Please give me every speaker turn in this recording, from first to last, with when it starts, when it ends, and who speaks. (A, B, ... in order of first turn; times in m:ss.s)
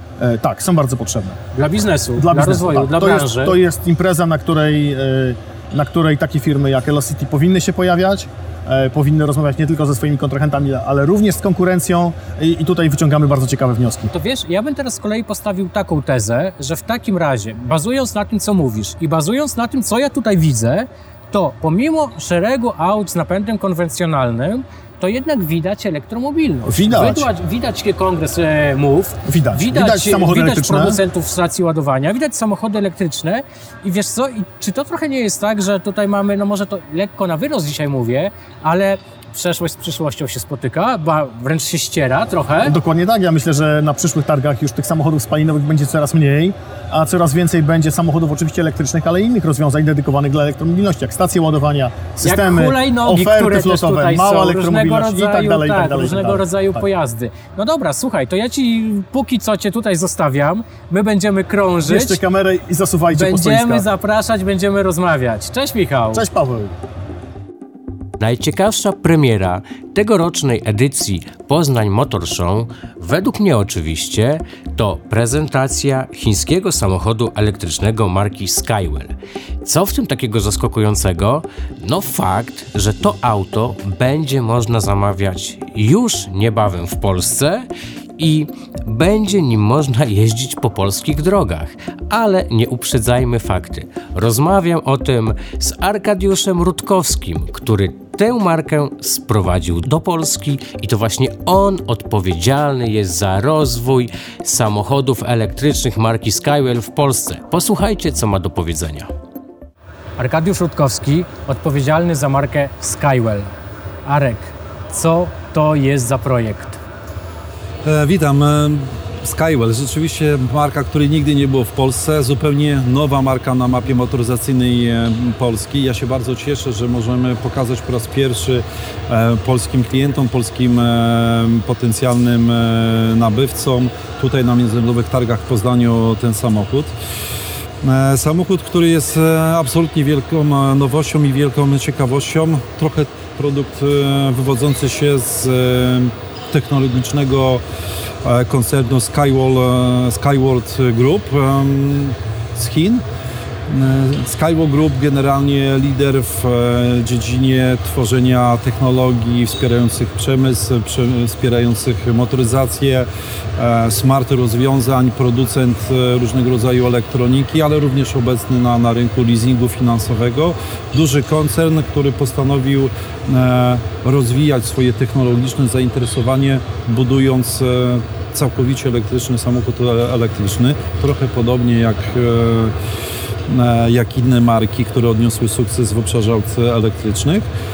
0:00.2-0:01.4 A
0:01.5-0:03.6 B
0:02.2-0:14.1 A
0:14.1-0:42.8 B
0:26.6-0:27.3 A
0:29.3-0:31.0 A
0:42.6-0:56.8 A
0:52.2-1:02.2 B
1:01.9-1:03.9 A
1:03.1-1:06.2 B
1:06.1-1:06.8 A
1:08.2-1:49.1 C
1:50.2-1:53.5 B
1:54.0-1:56.8 B
1:57.8-2:16.9 D
2:17.8-2:27.6 D
2:28.2-2:33.0 D
2:33.7-3:02.8 D
3:03.5-3:07.4 D